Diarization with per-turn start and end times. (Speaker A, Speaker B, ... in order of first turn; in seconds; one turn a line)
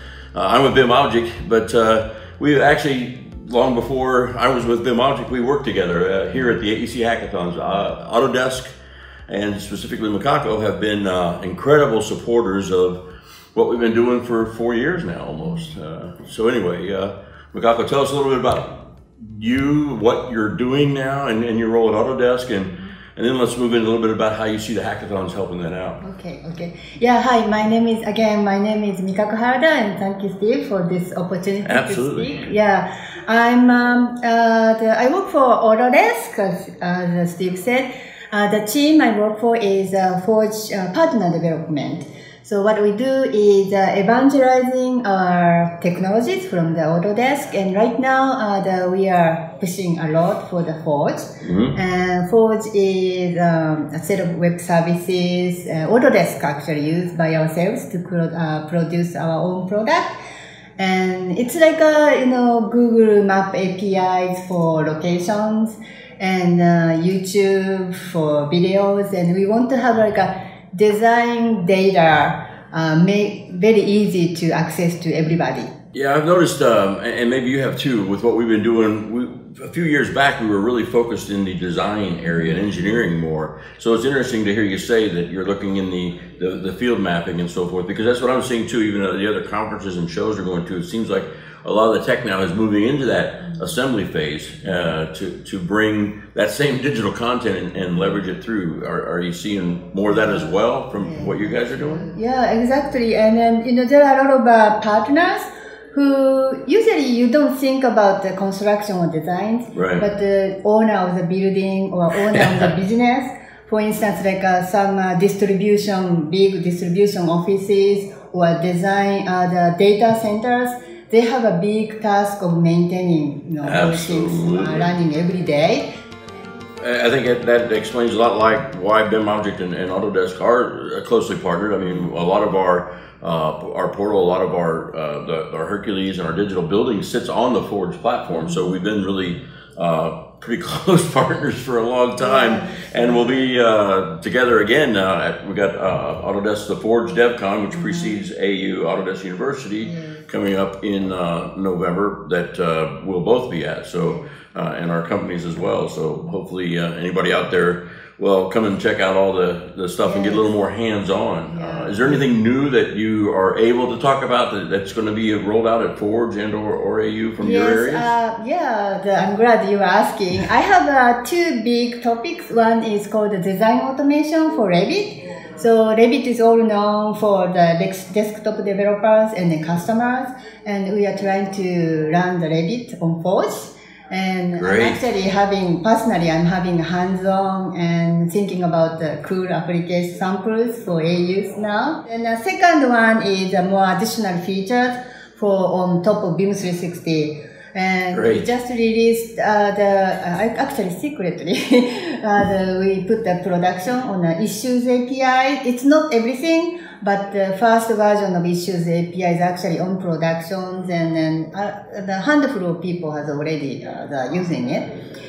Speaker A: 0.3-8.7
Speaker A: 9.3-13.0
Speaker A: 13.5-26.0
Speaker B: 26.0-60.2
Speaker A: 31.6-32.5
Speaker A: 51.4-51.8
Speaker B: 60.8-75.7
Speaker A: 75.9-102.1
Speaker B: 100.1-125.9
Speaker A: 109.7-110.0
Speaker A: 112.3-112.7
Speaker A: 123.6-124.9
Speaker A: 126.8-168.1
Speaker B: 138.3-138.7
Speaker B: 142.2-143.5
Speaker B: 147.7-148.2
Speaker B: 149.8-150.3
Speaker B: 154.0-154.4
Speaker B: 160.0-160.5
Speaker B: 161.5-162.2
Speaker B: 167.4-214.9
Speaker A: 184.6-185.0
Speaker A: 198.1-198.4